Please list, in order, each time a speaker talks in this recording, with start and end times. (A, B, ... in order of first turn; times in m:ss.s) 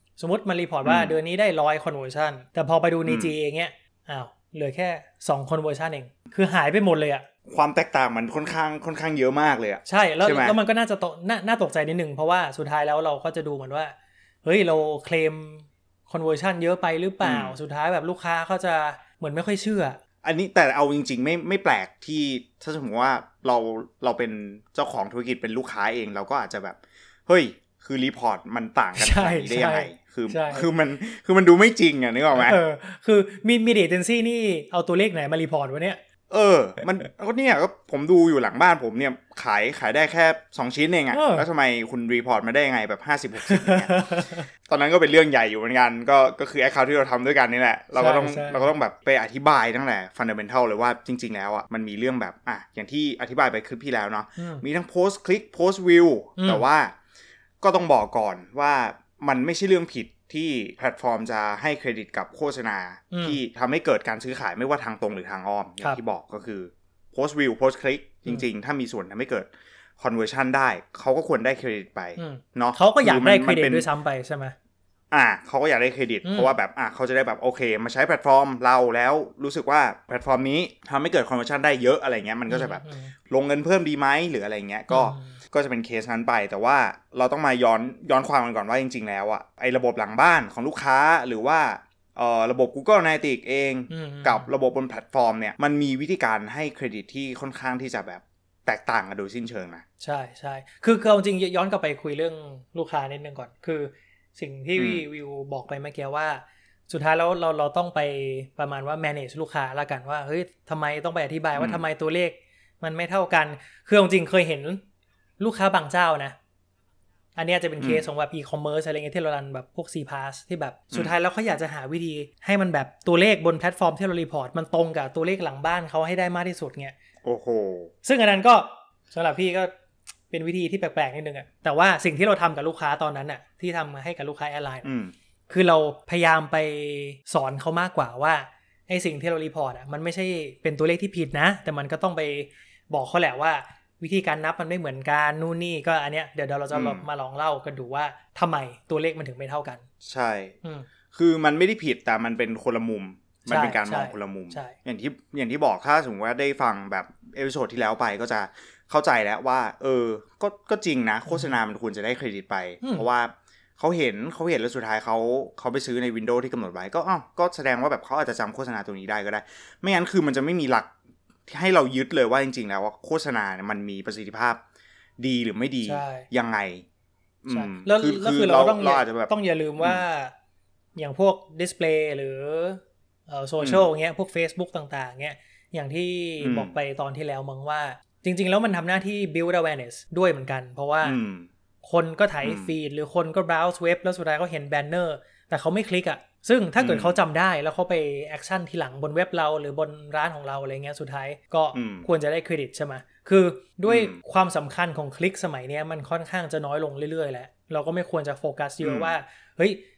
0:00.2-0:07.2 A
0:00.8-0:01.2 B
0:03.0-0:03.3 B
0:07.5-0:10.6 B
0:09.9-0:20.0 A
0:17.2-0:17.6 B
0:20.2-0:32.6 B
0:29.0-0:30.7 A
0:32.3-0:36.0 A
0:36.3-0:44.0 B
0:41.1-0:41.5 A
0:43.4-0:44.5 A
0:44.7-0:56.9 B
0:48.0-0:48.7 A
0:54.4-0:54.6 A
0:56.4-0:56.6 A
0:57.6-1:13.9 B
1:03.1-1:03.4 A
1:12.2-1:14.5 A
1:15.1-1:39.8 B
1:16.2-1:16.5 A
1:22.5-1:23.1 A
1:24.9-1:25.3 A
1:33.9-1:34.5 A
1:40.0-1:54.8 A
1:44.8-1:45.0 B
1:51.5-1:51.8 B
1:55.4-1:56.4 A
1:57.4-2:06.9 A
1:57.8-1:58.0 B
2:07.2-2:07.9 B
2:08.0-2:09.7 A
2:10.3-2:14.9 A
2:14.8-2:15.1 B
2:15.5-2:29.8 A
2:26.7-2:27.0 B
2:30.0-2:30.6 B
2:30.6-2:30.9 A
2:31.1-2:50.9 B
2:33.5-2:34.8 A
2:41.3-2:41.6 A
2:42.8-2:43.1 A
2:51.5-2:54.6 B
2:55.2-2:56.8 B
2:55.8-2:56.3 A
2:57.4-3:00.0 B
2:57.5-3:00.3 A
3:01.0-3:11.2 A
3:03.6-3:03.9 B
3:06.4-3:06.8 B
3:11.0-3:11.5 B
3:11.8-3:29.8 A
3:12.4-3:12.7 B
3:16.8-3:17.2 B
3:21.7-3:22.1 B
3:23.9-3:24.2 B
3:28.8-3:29.1 B